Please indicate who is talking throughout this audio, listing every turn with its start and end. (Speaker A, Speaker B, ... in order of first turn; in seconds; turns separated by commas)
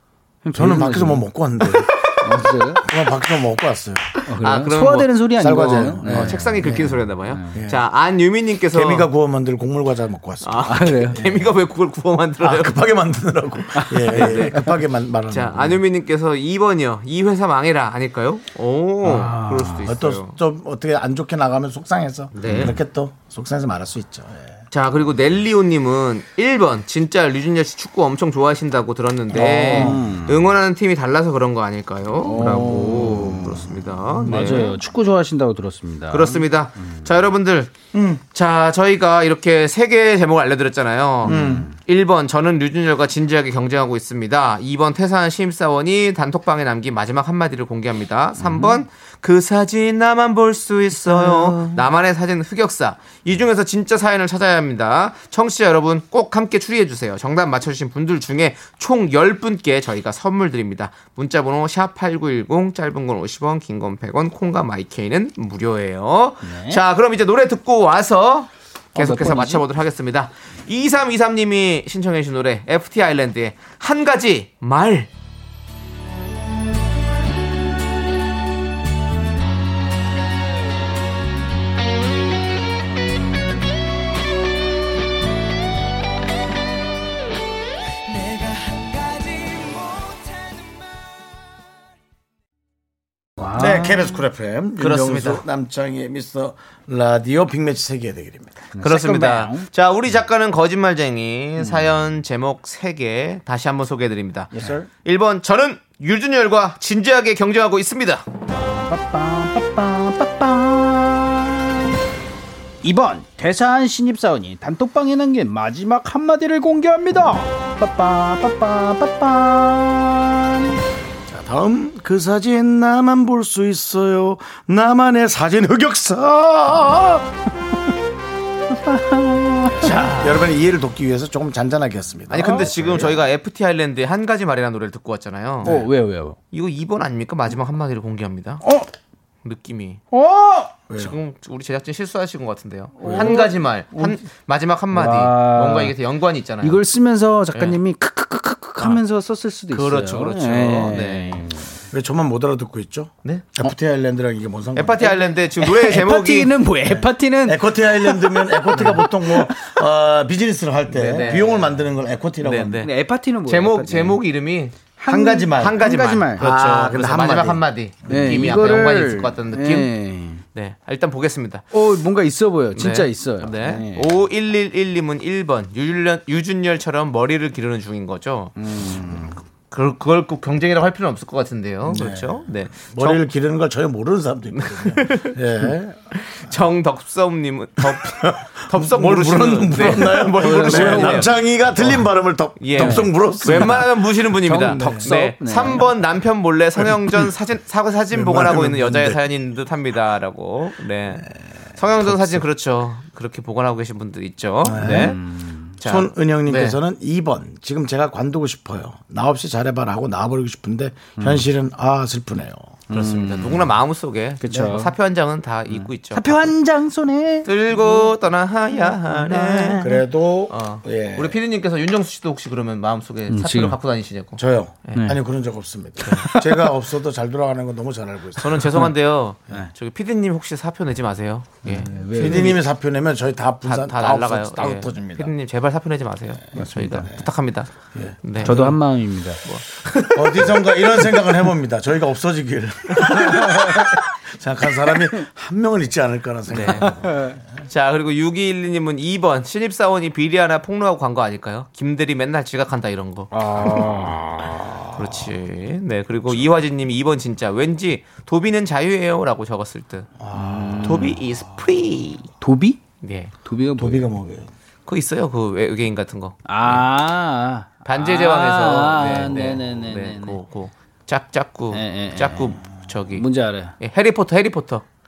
Speaker A: 0.4-2.8, Speaker B: 0.6-1.9, Speaker B: 2.8-4.1, Speaker A: 4.3-7.6, Speaker C: 4.4-9.1, Speaker B: 5.4-6.5, Speaker B: 7.5-7.8, Speaker B: 8.7-11.5, Speaker C: 10.4-12.8, Speaker A: 10.7-11.2, Speaker B: 12.4-15.8, Speaker A: 13.8-14.7, Speaker C: 14.1-14.7, Speaker C: 15.3-20.4, Speaker A: 19.1-19.9, Speaker B: 19.8-24.5, Speaker C: 22.4-22.8, Speaker A: 22.4-22.7, Speaker C: 24.7-34.8, Speaker B: 29.3-30.0, Speaker A: 29.3-30.5, Speaker A: 32.2-33.7, Speaker A: 34.2-36.9, Speaker C: 36.1-37.7, Speaker B: 37.9-38.2, Speaker C: 38.3-75.1, Speaker A: 41.2-41.7, Speaker B: 41.2-41.7, Speaker A: 48.4-48.8, Speaker A: 51.1-51.8, Speaker A: 66.4-66.8, Speaker A: 69.0-69.6, Speaker A: 93.4-94.1, Speaker B: 93.5-98.7, Speaker C: 94.8-95.4, Speaker A: 98.7-99.7, Speaker C: 98.8-104.5, Speaker A: 101.6-101.9, Speaker A: 104.5-104.9, Speaker C: 105.0-108.3, Speaker A: 108.5-112.0, Speaker A: 112.8-120.8, Speaker B: 121.3-127.3, Speaker A: 128.7-129.9, Speaker B: 129.7-133.2, Speaker C: 129.8-130.5, Speaker C: 132.3-135.8, Speaker A: 135.6-136.4, Speaker C: 136.5-138.6, Speaker C: 139.4-140.0, Speaker A: 140.1-140.8, Speaker B: 140.9-141.2, Speaker C: 140.9-146.8, Speaker A: 143.0-144.2, Speaker B: 143.0-143.4, Speaker A: 144.9-145.9, Speaker A: 146.6-151.8, Speaker C: 149.7-151.4, Speaker B: 151.9-155.1, Speaker C: 154.7-156.6, Speaker A: 155.0-159.7, Speaker B: 156.9-162.8, Speaker C: 160.9-161.8, Speaker C: 162.4-162.9, Speaker A: 162.8-164.2, Speaker C: 163.4-164.8, Speaker A: 165.0-166.4, Speaker B: 165.1-165.8, Speaker C: 165.5-169.9, Speaker B: 166.4-168.3, Speaker A: 168.1-170.4, Speaker C: 170.5-171.6, Speaker A: 171.7-174.1, Speaker C: 172.7-178.5, Speaker A: 178.6-179.4, Speaker C: 179.7-183.3, Speaker B: 181.8-186.6, Speaker C: 184.5-185.4, Speaker C: 186.1-191.3, Speaker B: 187.8-194.0, Speaker A: 190.1-191.3, Speaker C: 192.6-205.2, Speaker A: 192.8-195.9, Speaker B: 194.7-195.1, Speaker B: 198.1-199.2, Speaker B: 202.0-202.4, Speaker B: 204.6-205.2, Speaker A: 204.8-205.7, Speaker C: 205.8-206.8, Speaker B: 205.8-212.7, Speaker A: 211.2-211.4, Speaker A: 212.9-213.7, Speaker C: 212.9-216.5, Speaker A: 214.4-214.9, Speaker A: 216.1-218.2, Speaker C: 217.4-220.0, Speaker A: 218.8-220.0, Speaker B: 219.8-221.4, Speaker C: 220.5-225.0, Speaker A: 223.3-223.8, Speaker B: 224.4-228.8, Speaker A: 226.1-226.7, Speaker C: 228.4-232.5, Speaker A: 231.6-232.6, Speaker B: 232.1-235.3, Speaker C: 233.6-237.7, Speaker A: 236.6-237.1, Speaker B: 237.9-238.7, Speaker C: 238.2-238.8, Speaker A: 238.4-239.4, Speaker C: 239.4-240.7, Speaker B: 240.1-247.2, Speaker A: 243.3-243.7, Speaker C: 246.5-247.1, Speaker A: 247.1-247.4, Speaker C: 247.7-253.9, Speaker A: 253.3-254.9, Speaker C: 254.9-260.1, Speaker B: 260.2-261.2, Speaker A: 260.3-261.2, Speaker C: 260.8-262.3, Speaker A: 262.4-262.8, Speaker C: 263.0-263.3, Speaker A: 263.4-264.1, Speaker B: 263.8-264.5, Speaker C: 264.9-266.9, Speaker A: 266.4-270.4, Speaker C: 267.9-273.3, Speaker A: 271.7-272.6, Speaker A: 273.1-273.7, Speaker C: 273.8-274.9